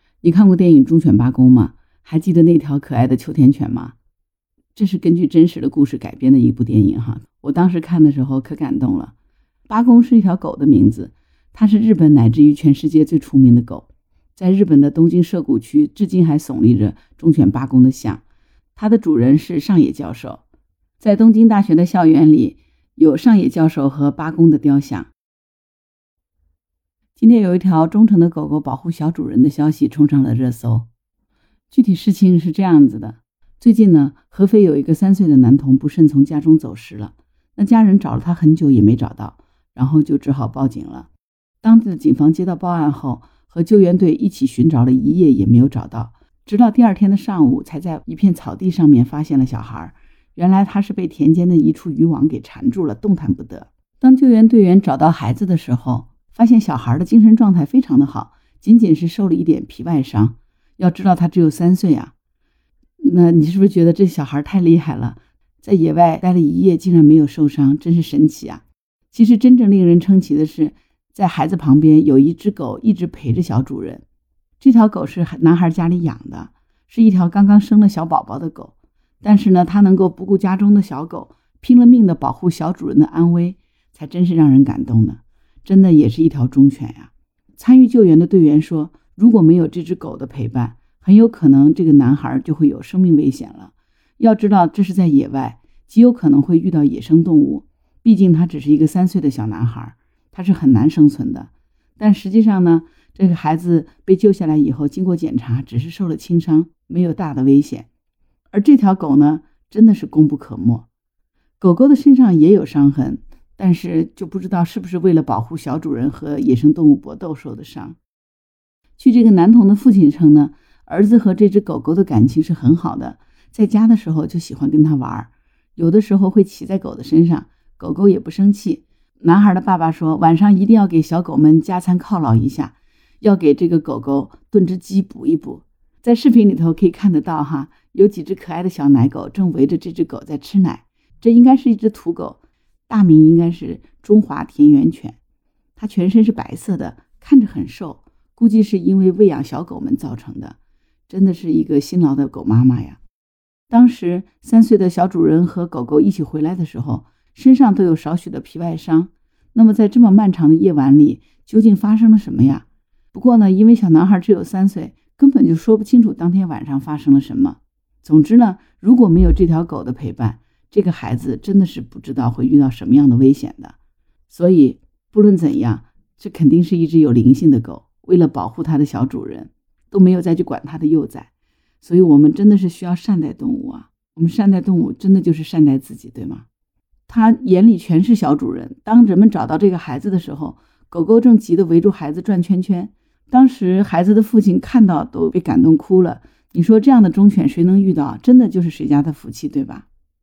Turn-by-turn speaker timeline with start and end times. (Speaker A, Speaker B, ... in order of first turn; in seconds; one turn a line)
Speaker A: 0.2-3.9
Speaker A: 4.8-9.1
Speaker A: 9.7-18.2
Speaker A: 18.8-20.4
Speaker A: 21.0-25.1
Speaker A: 27.2-30.9
Speaker A: 31.7-41.1
Speaker A: 41.6-62.1
Speaker A: 63.0-74.0
Speaker A: 74.6-107.9
Speaker A: 108.5-110.8
Speaker A: 111.6-118.0
Speaker A: 119.0-145.2
Speaker A: 145.8-150.6
Speaker A: 151.1-153.0
Speaker A: 153.7-173.7
Speaker A: 174.3-181.3
Speaker A: 181.8-186.4
Speaker A: 187.1-199.8